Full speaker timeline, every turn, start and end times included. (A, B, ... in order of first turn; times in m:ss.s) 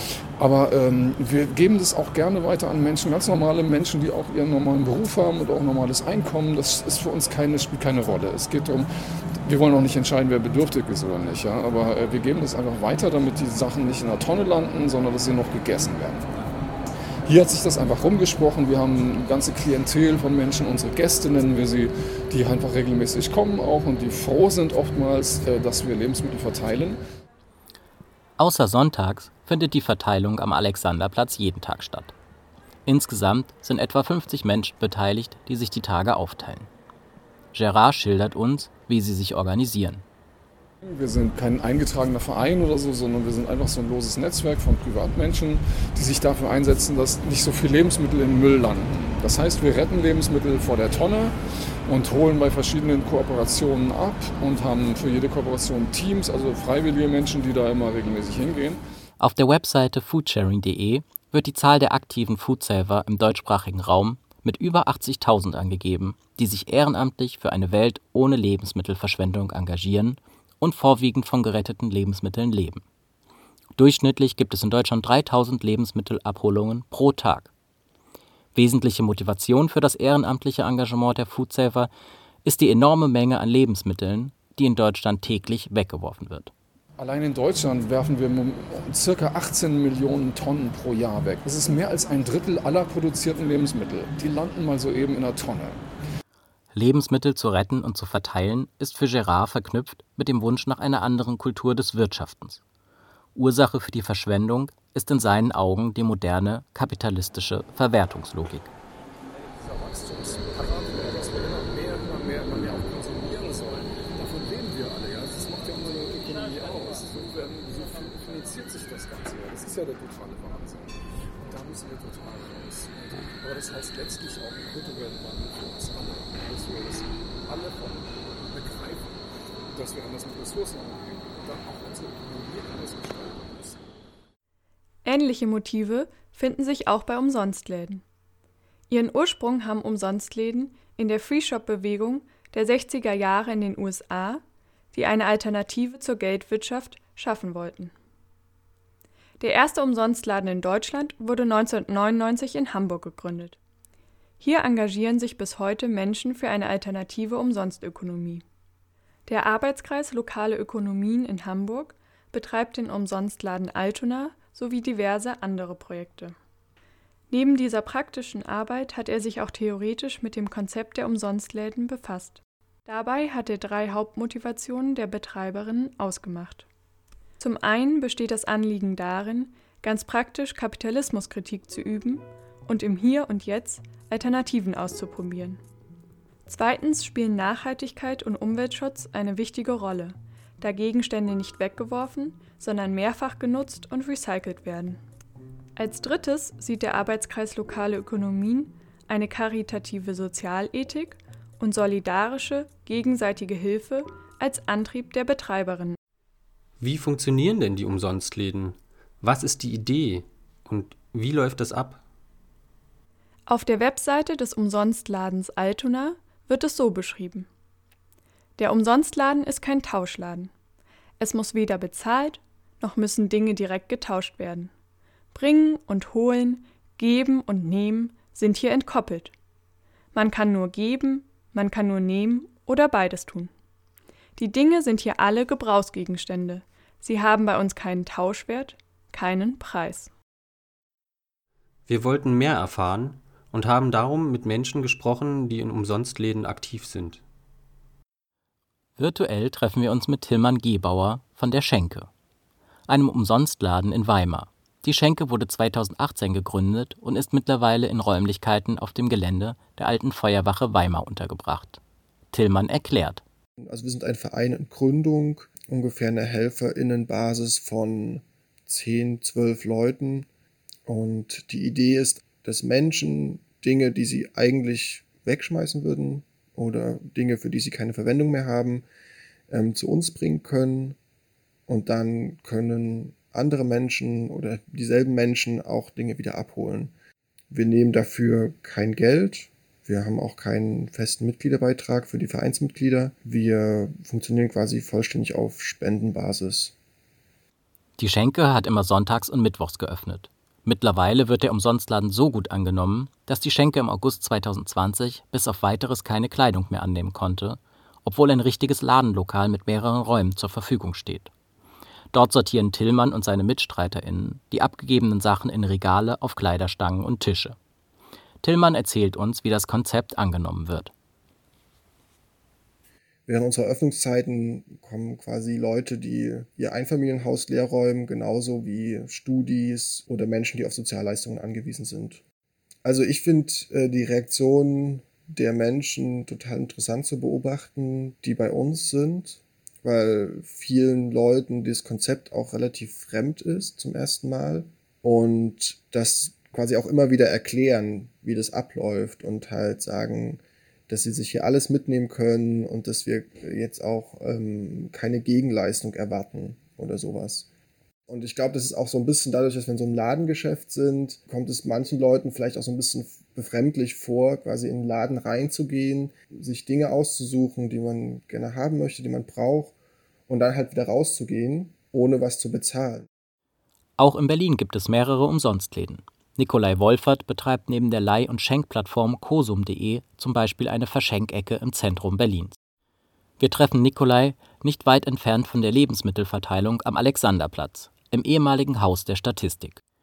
0:00.4-0:08.9 A
0:09.4-0:16.3 A
0:17.3-0:27.0 A
0:28.4-0:32.1 B
0:32.8-0:36.7 B
0:37.5-0:40.0 B
0:40.8-0:51.4 A
0:51.9-0:58.8 A
0:59.2-1:12.8 B
1:13.8-1:17.5 B
1:18.6-1:21.9 B
1:22.4-1:26.5 B
1:27.0-1:35.8 A
1:36.7-1:42.6 B
1:43.4-1:48.7 B
1:49.6-2:09.2 A
2:09.7-2:13.8 A
2:15.0-2:18.0 C
2:18.9-2:24.4 C
2:24.9-2:27.9 C
2:29.4-2:33.6 C
2:34.4-2:38.4 C
2:39.3-2:46.4 C
2:47.3-2:56.7 C
2:57.4-3:05.6 C
3:06.5-3:15.0 C
3:15.8-3:26.0 C
3:26.8-3:32.0 D
3:33.5-3:37.5 C
3:38.6-3:40.5 C
3:41.2-3:44.7 C
3:45.3-3:49.3 C
3:50.1-3:53.5 C
3:54.4-4:00.1 C
4:01.9-4:07.2 D
4:09.0-4:12.1 B
4:12.9-4:21.8 B
4:22.3-4:23.2 B
4:23.6-4:30.3 E
4:30.9-4:38.9 E
4:39.5-4:41.0 E
4:41.7-4:46.9 E
4:47.5-4:56.8 E
4:58.0-5:11.3 B
5:12.1-5:17.6 B
5:18.4-5:20.9 B
5:23.3-5:32.2 E
5:32.8-5:57.5 E
5:58.1-6:09.7 E
6:10.3-6:13.1 E
6:14.0-6:22.6 B
6:23.4-6:29.8 B